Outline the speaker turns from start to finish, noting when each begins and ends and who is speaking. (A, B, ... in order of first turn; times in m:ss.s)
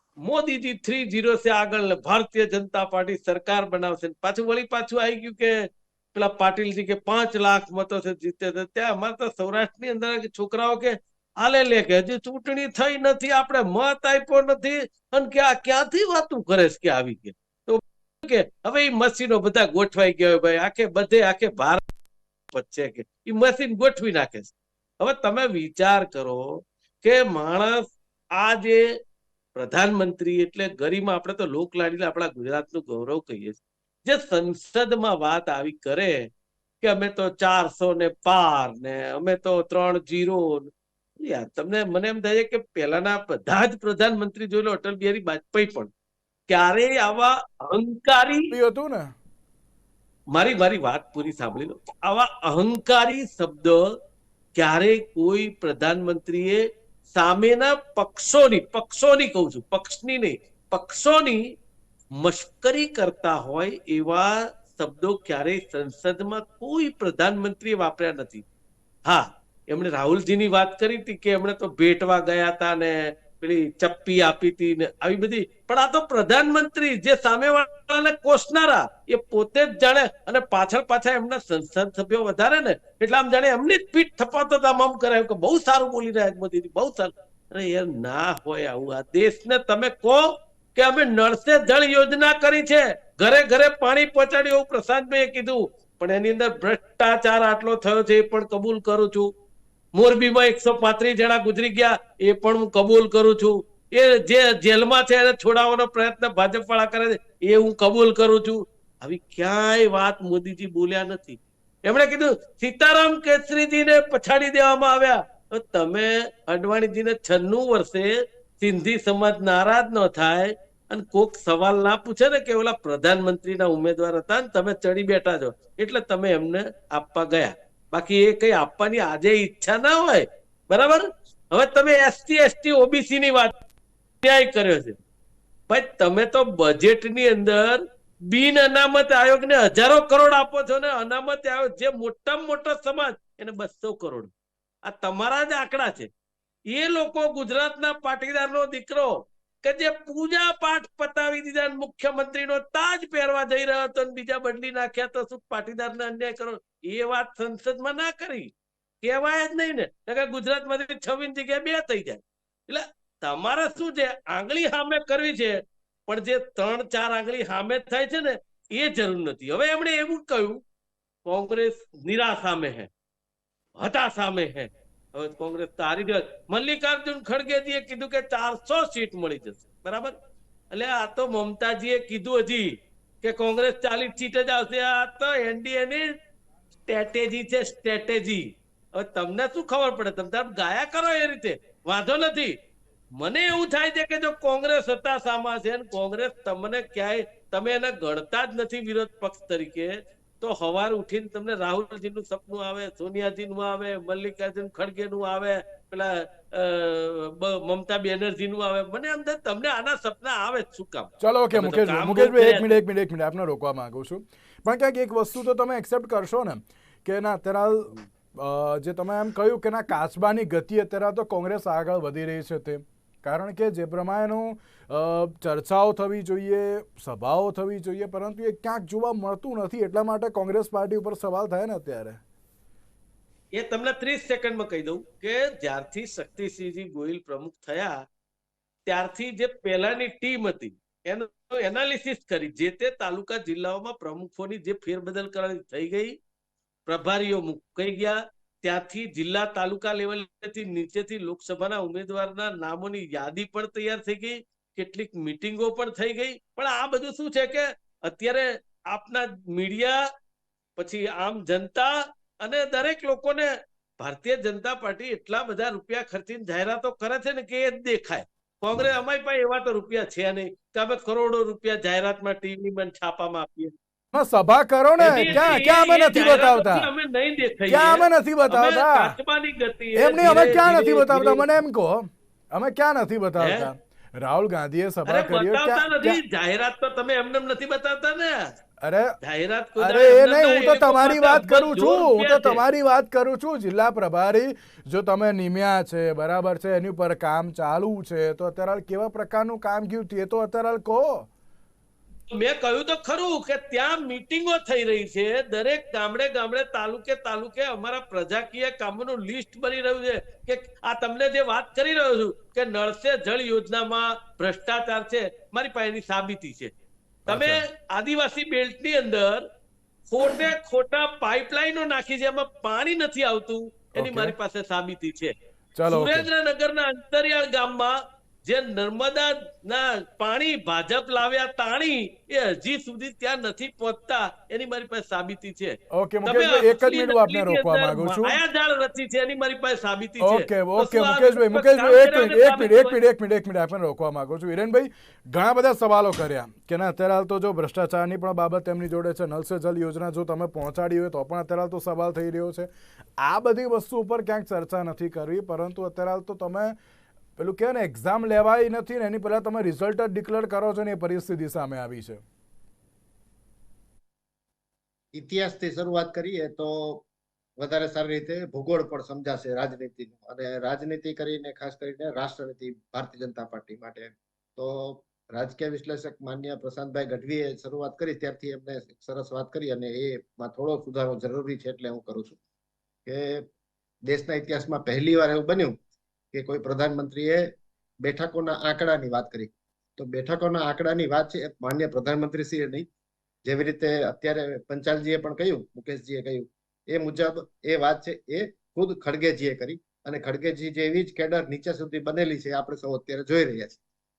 0:00.2-0:21.8 A
0:22.5-0:28.9 A
0:29.6-0:36.3 A
0:36.8-0:45.9 A
0:46.5-0:48.6 A
0:48.5-0:49.1 B
0:50.3-0:54.0 A
0:54.6-1:01.5 A
1:02.2-1:08.4 A
1:09.1-1:39.3 A
1:40.0-2:13.5 A
2:14.2-2:15.0 A
2:15.7-2:24.3 A
2:24.8-2:26.1 A
2:26.7-2:38.5 A
2:39.0-2:50.6 A
2:51.2-2:52.9 A
2:53.8-3:00.2 A
3:00.7-3:06.1 A
3:06.9-3:12.6 A
3:13.2-3:32.8 A
3:31.2-3:52.2 B
3:53.5-3:58.0 A
3:58.9-4:06.2 A
4:06.9-4:20.0 A
4:20.8-4:33.7 A
4:34.1-4:36.9 B
4:35.0-4:41.5 A
4:37.7-4:39.2 B
4:40.0-4:46.2 B
4:43.4-4:43.7 A
4:45.1-4:48.5 A
4:48.8-4:49.2 B
4:49.2-4:52.6 A
4:49.8-5:01.3 B
5:02.3-5:16.7 A
5:17.3-5:17.6 B
5:17.3-5:19.5 A
5:20.1-5:25.3 A
5:24.0-5:24.4 B
5:25.8-5:26.3 B
5:25.9-5:43.0 A
5:35.9-5:38.4 B
5:40.2-5:56.8 B
5:57.4-6:02.2 B
6:05.1-6:07.0 C
6:07.6-6:22.4 C
6:23.1-6:23.5 C
6:24.1-6:25.8 C
6:26.3-6:32.9 C
6:33.4-6:43.8 C